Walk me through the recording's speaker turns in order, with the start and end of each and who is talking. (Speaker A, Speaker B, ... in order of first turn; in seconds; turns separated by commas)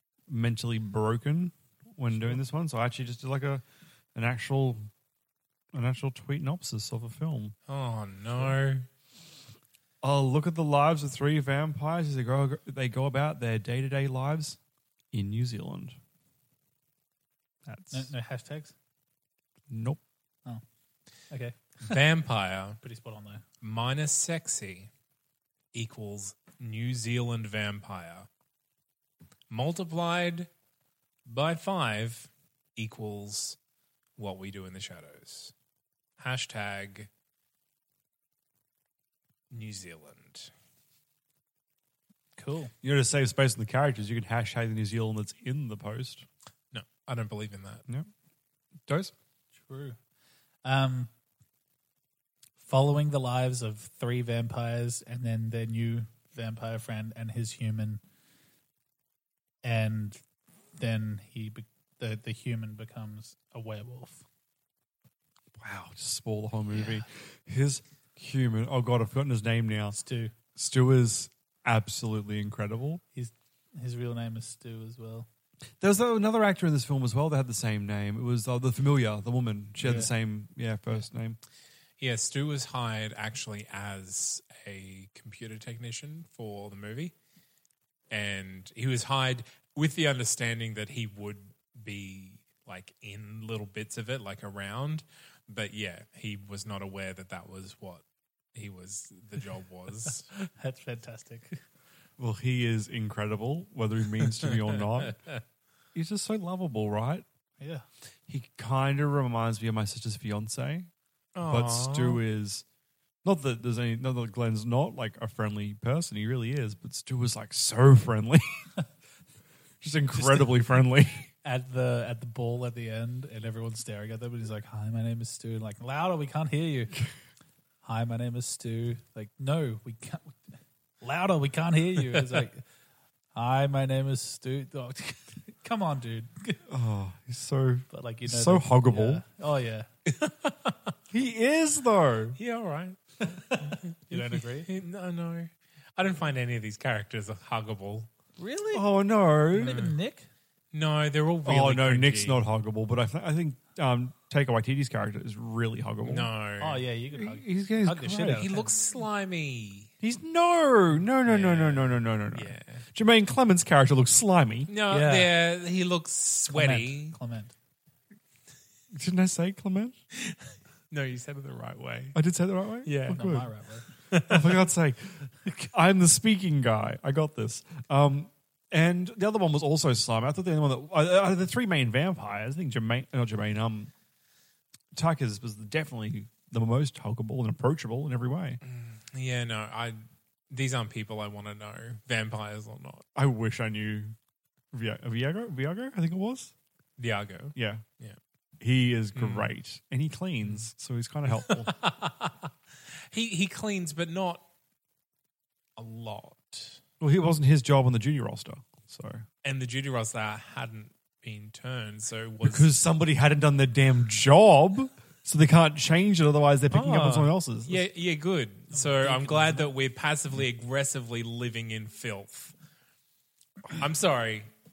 Speaker A: 0.3-3.6, Speaker A: 4.1-4.9, Speaker A: 5.7-7.5, Speaker B: 7.7-8.8, Speaker A: 10.0-14.6, Speaker A: 15.1-15.9, Speaker A: 17.6-18.1, Speaker C: 17.9-18.7, Speaker A: 19.7-20.0, Speaker C: 21.3-22.0, Speaker B: 21.8-22.8, Speaker C: 22.8-23.4, Speaker B: 23.6-24.9, Speaker B: 25.7-28.3, Speaker B: 29.5-30.5, Speaker B: 31.2-33.6, Speaker B: 34.2-35.5, Speaker B: 36.2-37.1, Speaker B: 39.5-40.5, Speaker C: 42.4-42.7, Speaker A: 42.8-46.2, Speaker B: 46.7-47.8, Speaker A: 48.9-49.1, Speaker C: 49.6-50.0, Speaker C: 50.6-51.1, Speaker C: 52.6-58.0, Speaker C: 59.6-60.2, Speaker C: 60.8-64.2, Speaker A: 65.6-70.0, Speaker C: 69.9-70.3, Speaker A: 70.5-73.0, Speaker C: 73.1-75.3, Speaker A: 75.8-81.4, Speaker C: 79.8-80.1, Speaker B: 82.0-87.1, Speaker B: 88.1-98.0, Speaker B: 98.5-100.3, Speaker C: 100.4-101.6, Speaker A: 102.2-105.2, Speaker A: 105.9-107.2, Speaker A: 108.3-110.9, Speaker B: 111.3-112.2, Speaker A: 111.4-112.6, Speaker A: 113.2-118.7, Speaker A: 119.8-121.3, Speaker C: 120.1-120.5, Speaker C: 121.4-127.0, Speaker C: 127.8-130.4, Speaker C: 131.0-132.6, Speaker C: 133.3-136.6, Speaker A: 136.7-139.2, Speaker C: 137.9-139.9, Speaker B: 140.1-140.7, Speaker A: 141.1-142.4, Speaker B: 142.4-148.1, Speaker C: 143.3-144.7, Speaker C: 148.4-148.8, Speaker A: 148.7-149.9, Speaker C: 149.5-150.3, Speaker B: 150.7-152.4, Speaker A: 151.4-156.3, Speaker B: 156.0-156.8, Speaker C: 156.6-158.7, Speaker A: 157.1-158.5, Speaker B: 158.3-159.9, Speaker A: 160.0-164.7, Speaker B: 161.2-162.8, Speaker B: 164.7-167.2, Speaker C: 164.9-165.3, Speaker C: 166.5-167.5, Speaker A: 168.9-169.9, Speaker B: 170.2-172.2, Speaker A: 172.1-173.5, Speaker B: 172.8-173.4, Speaker C: 173.1-173.9, Speaker B: 174.1-174.6, Speaker A: 174.2-183.9, Speaker A: 184.9-188.6, Speaker B: 188.6-190.0, Speaker B: 190.5-193.0, Speaker A: 193.2-194.1, Speaker A: 194.7-196.5, Speaker B: 197.0-198.2, Speaker A: 197.5-197.8, Speaker A: 198.6-201.7, Speaker B: 199.1-199.5, Speaker B: 201.4-202.3, Speaker B: 203.1-204.4, Speaker B: 205.8-206.8, Speaker A: 207.0-209.2, Speaker B: 209.4-212.7, Speaker A: 212.4-217.8, Speaker B: 216.7-222.5, Speaker C: 218.7-219.7, Speaker B: 223.7-224.5